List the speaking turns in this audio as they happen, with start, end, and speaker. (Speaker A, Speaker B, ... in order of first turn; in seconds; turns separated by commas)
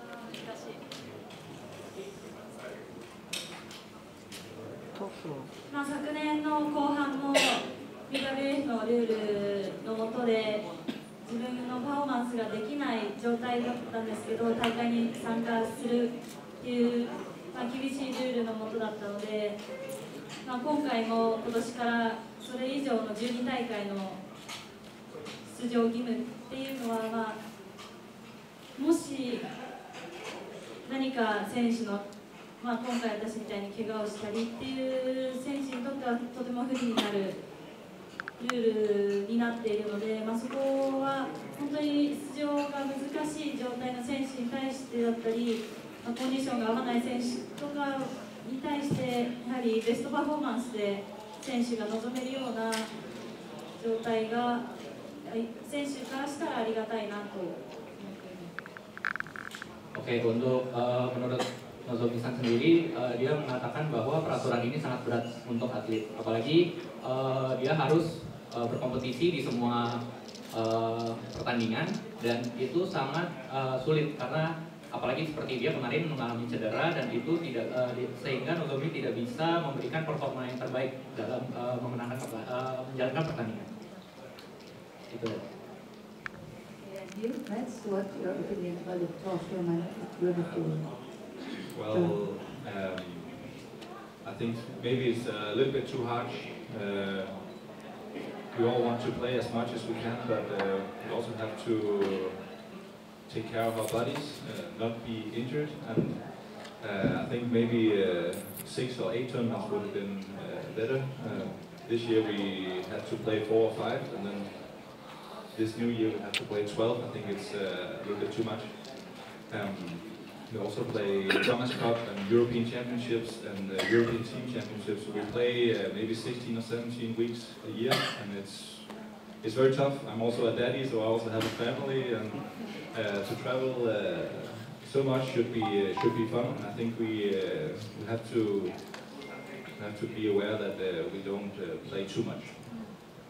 Speaker A: 0.3-0.7, Speaker A: 5.7-10.7, Speaker A: 11.2-19.6, Speaker A: 20.4-24.2, Speaker A: 25.4-27.4, Speaker A: 28.7-29.5, Speaker A: 30.8-32.0, Speaker A: 32.6-37.4, Speaker A: 38.4-52.9, Speaker A: 53.8-54.7, Speaker A: 55.2-57.5, Speaker B: 58.0-58.5, Speaker C: 59.9-69.9, Speaker C: 70.5-83.7, Speaker C: 85.1-85.4, Speaker B: 86.8-90.9, Speaker D: 90.3-91.0, Speaker D: 91.7-93.5, Speaker B: 91.9-92.2, Speaker D: 94.2-97.6, Speaker D: 98.5-102.5, Speaker D: 103.2-139.1, Speaker D: 139.7-142.6, Speaker B: 142.7-142.9